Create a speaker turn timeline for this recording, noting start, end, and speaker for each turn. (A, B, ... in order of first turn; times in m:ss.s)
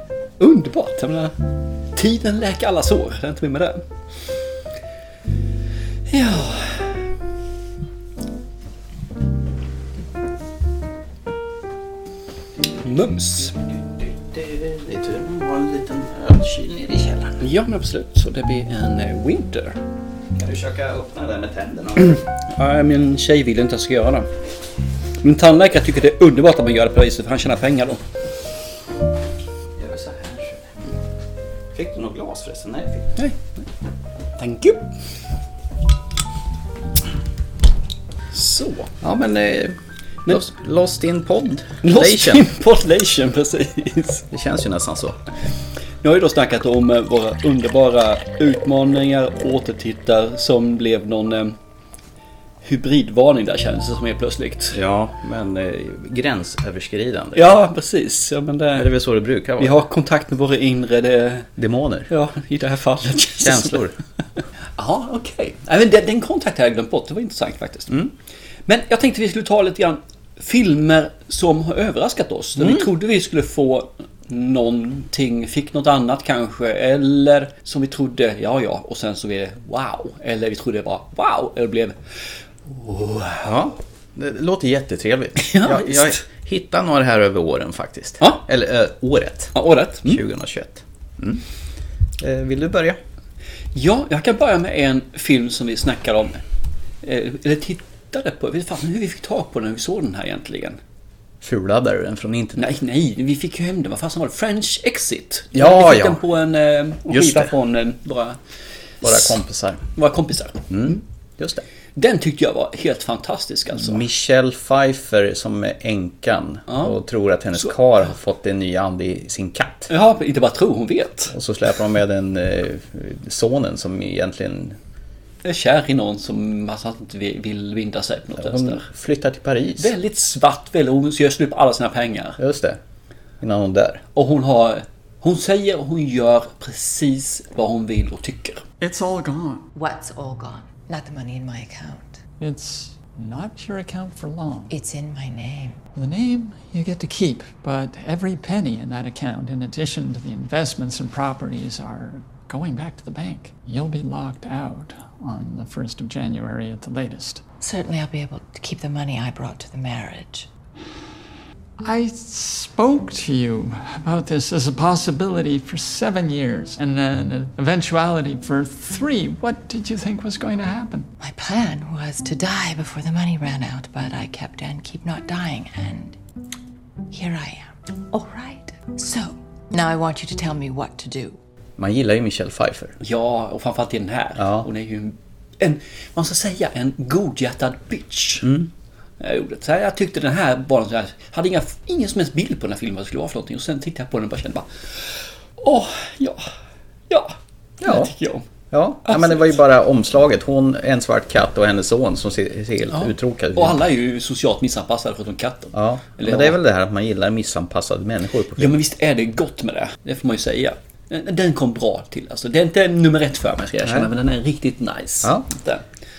0:00.4-0:01.4 A
0:01.9-0:03.9 A
0:06.1-0:07.0 A
0:12.8-0:13.5 A
0:13.5-0:17.4 B
0:17.4-0:19.8 A
0:20.4-0:22.2 B
0:22.5-0:24.3 A
0:25.2-0:28.0 A
0:29.8-0:30.7 B
0:31.7-0:33.2 B
0:33.2-0:33.6 A
0:34.4-0:34.8 A
0:38.3-0:38.9 A
0:39.0-0:42.5 B
0:41.8-0:44.3 A
0:44.3-0:45.2 B
0:46.0-0:51.6 A
0:52.6-0:54.8 A
0:54.7-0:57.6 B
0:57.4-0:58.9 A
0:58.8-0:59.8 B
0:59.6-1:01.5 A
1:01.6-1:02.1 B
1:02.1-1:03.8 A
1:03.4-1:03.9 B
1:04.8-1:07.9 A
1:08.7-1:22.0 A
1:12.6-1:12.9 B
1:22.7-1:23.5 A
1:23.4-1:31.4 B
1:25.4-1:26.2 A
1:29.6-1:30.2 A
1:32.2-1:33.0 B
1:33.8-1:36.4 A
1:37.0-1:40.8 A
1:41.4-1:42.7 B
1:42.6-1:48.4 A
1:45.5-1:46.2 B
1:47.1-1:47.5 B
1:49.0-1:49.4 A
1:49.0-1:49.8 B
1:50.0-1:51.0 A
1:50.7-1:51.6 B
1:52.0-1:54.0 A
1:53.8-1:59.9 B
1:56.7-1:57.0 A
1:57.6-1:58.1 A
1:59.9-2:01.3 A
2:01.3-2:04.8 B
2:05.4-2:08.8 A
2:08.4-2:09.9 B
2:09.8-2:12.4 A
2:12.4-2:12.8 B
2:13.4-2:14.0 B
2:14.2-2:18.6 A
2:18.8-2:19.7 C
2:19.7-2:22.2 D
2:22.4-2:24.7 C
2:24.7-2:25.8 D
2:26.0-2:37.4 C
2:37.6-2:40.5 D
2:41.8-2:51.1 C
2:51.2-2:56.2 D
2:57.1-3:01.4 D
3:01.8-3:03.0 B
3:03.0-3:08.5 A
3:04.4-3:04.7 B
3:08.4-3:08.7 B
3:09.2-3:14.7 A
3:15.6-3:16.5 A
3:17.1-3:18.4 A
3:17.8-3:18.1 B
3:18.7-3:23.8 B
3:19.1-3:19.6 A
3:22.9-3:26.6 A
3:25.7-3:28.7 B
3:28.6-3:35.8 A